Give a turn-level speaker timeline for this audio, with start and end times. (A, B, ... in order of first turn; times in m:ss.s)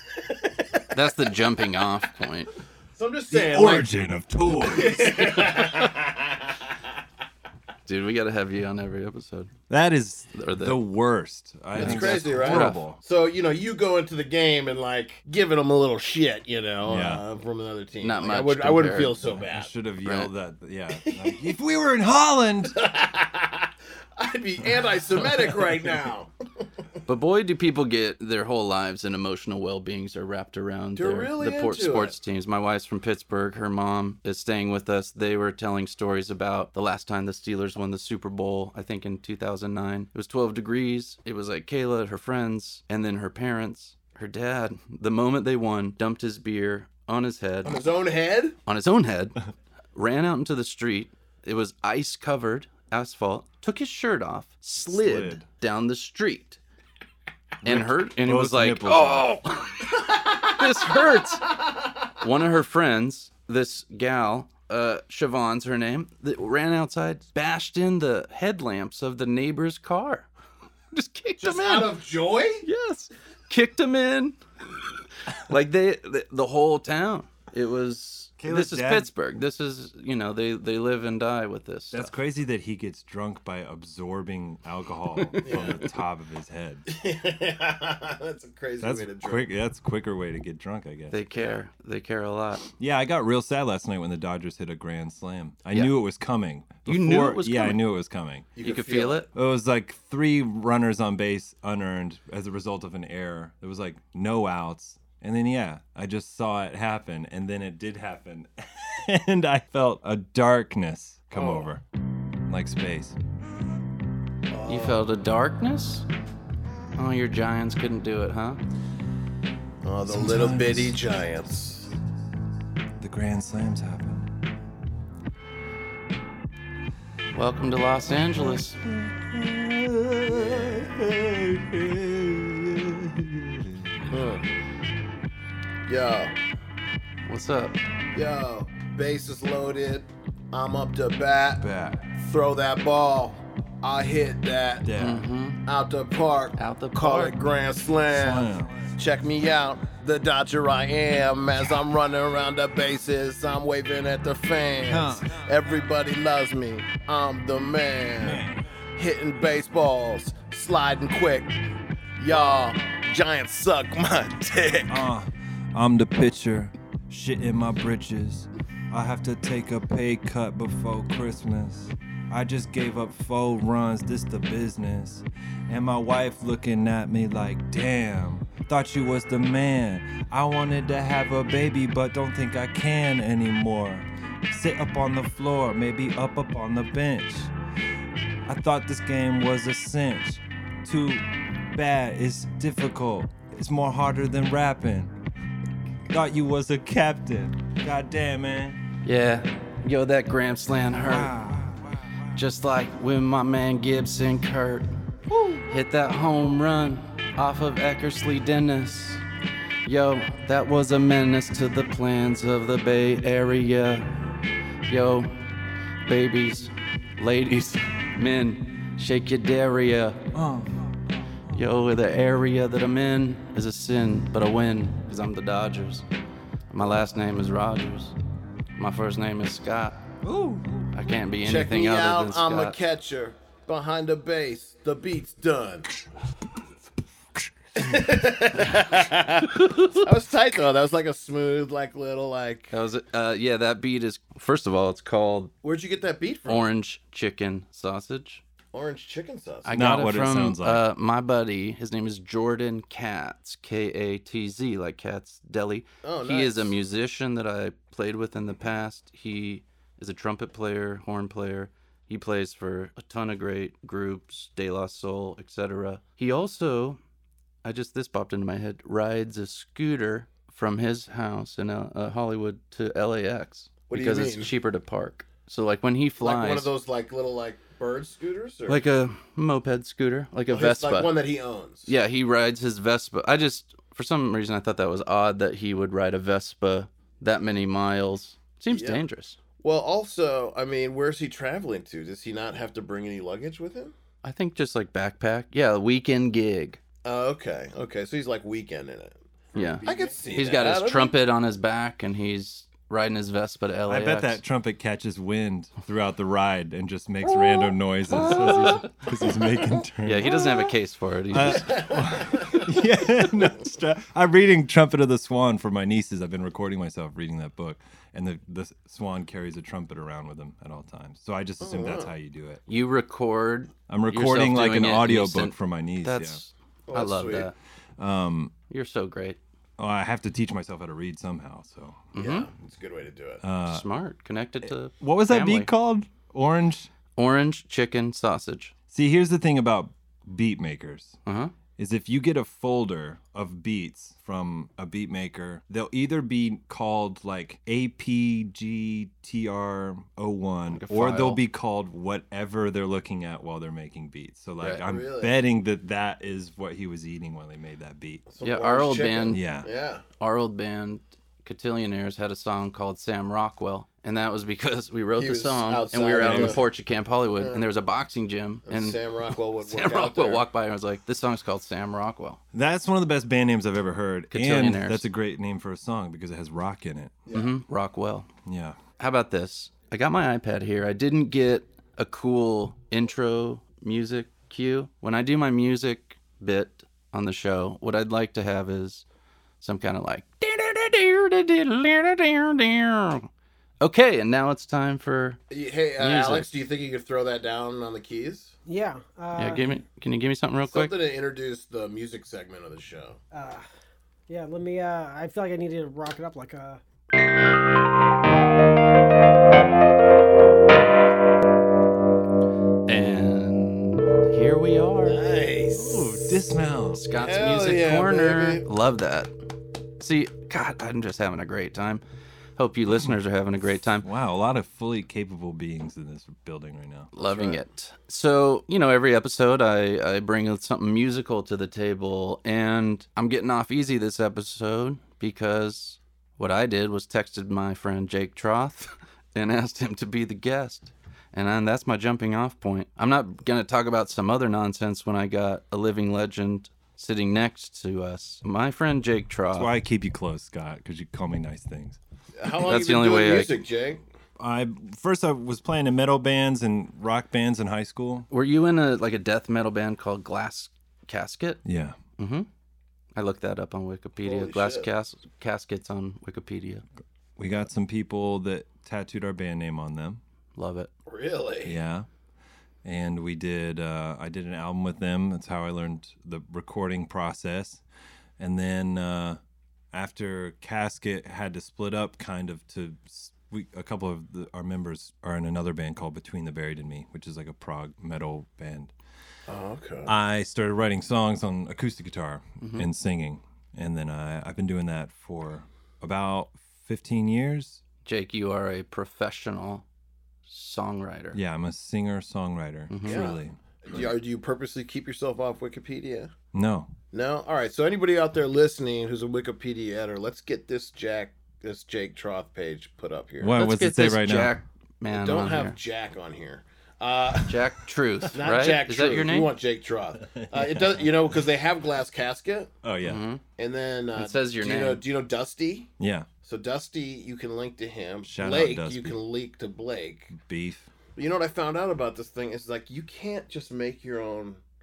0:00.1-0:01.4 A
0:00.9-0:02.5 B
0:02.9-0:03.9 A
0:03.3-0:05.9 C
0:04.5-0:06.5 A
0:07.8-0:09.5 B
0:09.7-0:13.0 C
0:10.3-0:10.8 B
0:11.7-0:12.8 B
0:11.7-0:19.7 A
0:16.8-0:17.2 C
0:18.0-0:19.2 B
0:19.2-0:22.8 C
0:20.0-0:20.3 B
0:21.0-0:21.4 A
0:22.7-0:26.3 A
0:27.0-0:47.8 B
0:31.0-0:32.2 A
0:47.6-0:48.6 A
0:48.6-0:49.4 B
0:49.9-0:56.6 B
0:54.8-0:55.4 C
0:57.6-0:59.4 C
0:57.6-1:01.6 B
1:02.2-1:10.3 B
1:10.9-1:12.0 B
1:11.4-1:12.6 A
1:12.6-1:14.4 B
1:15.3-1:22.1 B
1:18.4-1:19.1 C
1:21.9-1:26.8 C
1:25.2-1:25.7 B
1:25.4-1:25.8 A
1:26.9-1:29.4 A
1:28.8-1:31.2 C
1:31.1-1:32.6 B
1:32.8-1:38.5 C
1:36.8-1:37.8 B
1:38.6-1:39.2 A
1:38.6-1:39.3 B
1:39.3-1:51.8 C
1:51.3-1:51.7 A
1:52.4-1:53.2 C
1:54.5-1:55.1 A
1:54.6-1:56.1 B
1:56.9-1:58.6 B
1:59.8-2:01.9 A
2:00.0-2:01.0 C
2:03.0-2:04.3 C
2:07.3-2:08.8 B
2:08.2-2:14.1 C
2:10.3-2:11.0 A
2:14.1-2:14.4 A
2:15.8-2:16.3 A
2:17.2-2:17.8 B
2:18.1-2:24.9 A
2:21.6-2:22.1 C
2:24.8-2:25.3 C
2:25.0-2:25.6 B
2:25.6-2:41.6 A
2:26.6-2:27.4 B
2:28.1-2:28.9 C
2:34.8-2:35.4 C
2:38.2-2:38.6 C
2:42.2-2:45.0 A
2:44.9-3:07.5 C
3:08.4-3:15.1 C
3:16.1-3:18.8 C
3:19.0-3:21.3 B
3:21.0-3:21.8 C
3:22.3-3:24.9 B
3:25.3-3:25.6 C
3:25.6-3:29.2 B
3:29.8-3:34.2 B
3:34.9-3:35.5 B
3:36.0-3:40.2 B
3:40.3-3:40.9 C
3:41.5-3:46.0 B
3:46.7-3:48.1 B
3:48.8-3:50.0 B
3:50.2-3:50.8 C
3:50.9-3:52.8 B
3:51.4-3:55.9 A
3:57.7-4:02.7 A
3:59.5-4:00.0 B
4:02.7-4:05.5 B
4:05.6-4:06.7 A
4:06.4-4:08.4 B
4:08.7-4:09.8 A
4:09.6-4:27.0 B
4:09.7-4:10.8 C
4:16.0-4:16.7 A
4:27.6-4:36.7 B
4:33.9-4:34.5 A
4:36.2-4:38.8 A
4:38.7-4:41.1 B
4:40.5-4:41.9 A
4:41.8-4:49.4 B
4:48.7-4:49.0 A
4:49.6-4:53.9 A
4:54.2-4:56.8 B
4:57.0-5:01.1 A
4:59.5-5:04.4 B
5:03.9-5:10.7 C
5:08.1-5:09.0 B
5:10.0-5:11.9 B
5:11.3-5:22.6 C
5:11.5-5:12.6 A
5:21.6-5:22.1 A
5:22.7-5:27.5 B
5:23.9-5:26.4 C
5:26.9-5:27.5 A
5:28.0-5:28.5 C
5:28.7-5:29.4 B
5:29.8-5:32.0 C
5:32.1-5:32.5 B
5:32.2-5:33.4 A
5:33.4-5:33.8 C
5:33.7-5:35.7 B
5:35.0-5:36.9 C
5:37.2-5:38.7 B
5:38.9-5:41.2 C
5:41.2-5:41.5 B
5:41.8-5:58.2 C
5:50.7-5:51.4 B
5:54.7-5:55.4 A
5:58.3-6:00.0 A
5:58.4-5:59.4 B
5:59.3-5:59.7 C
6:00.2-6:09.0 B
6:05.2-6:06.6 A
6:06.2-6:06.6 C
6:07.4-6:07.6 A
6:08.7-6:10.4 A
6:09.6-6:12.4 B
6:12.5-6:17.2 C
6:14.3-6:15.0 B
6:17.3-6:17.5 A
6:17.3-6:18.3 B
6:18.4-6:18.8 C
6:19.0-6:29.0 B
6:29.6-6:33.3 B
6:33.8-6:35.4 B
6:35.5-6:38.5 A
6:36.0-6:36.5 B
6:38.7-6:39.6 D
6:39.3-6:40.9 B
6:40.7-6:43.2 A
6:43.3-6:43.6 D
6:44.3-6:46.8 D
6:52.9-6:56.3 B
6:55.0-6:56.1 A
6:55.9-6:57.0 C
6:56.9-6:59.3 B
6:57.1-6:58.6 A
7:00.0-7:02.0 B
7:02.6-7:04.1 B
7:04.0-7:07.1 C
7:07.1-7:29.7 B
7:07.2-7:07.6 A
7:29.5-7:32.0 C
7:32.4-7:34.0 A
7:32.6-7:33.6 B
7:34.4-7:38.3 C
7:38.3-7:41.6 B
7:41.6-7:42.0 C
7:42.2-7:42.5 B
7:43.1-7:46.8 B
7:44.2-7:44.9 A
7:47.4-7:50.2 C
7:50.6-7:50.9 B
7:51.1-7:51.8 A
7:51.6-7:52.1 C
7:52.8-7:57.8 C
7:58.4-7:59.4 C
7:59.9-8:08.9 C
8:09.5-8:10.1 A
8:10.0-8:17.8 C
8:12.6-8:12.9 B
8:18.0-8:19.8 B
8:20.5-8:21.4 B
8:21.3-8:24.1 C
8:22.9-8:23.2 B
8:23.0-8:26.3 A
8:26.5-8:26.9 C
8:27.1-8:33.6 A
8:33.4-8:34.5 C
8:33.5-8:35.8 B
8:35.1-8:37.6 A
8:37.4-8:39.5 B
8:38.3-8:42.7 A
8:40.2-8:41.2 C
8:42.8-8:43.2 C
8:43.0-8:43.4 B
8:43.6-8:45.9 A
8:44.2-8:45.0 B
8:46.0-8:46.3 C
8:46.4-8:50.3 A
8:48.2-8:49.2 C
8:50.3-8:50.9 C
8:51.2-8:54.6 A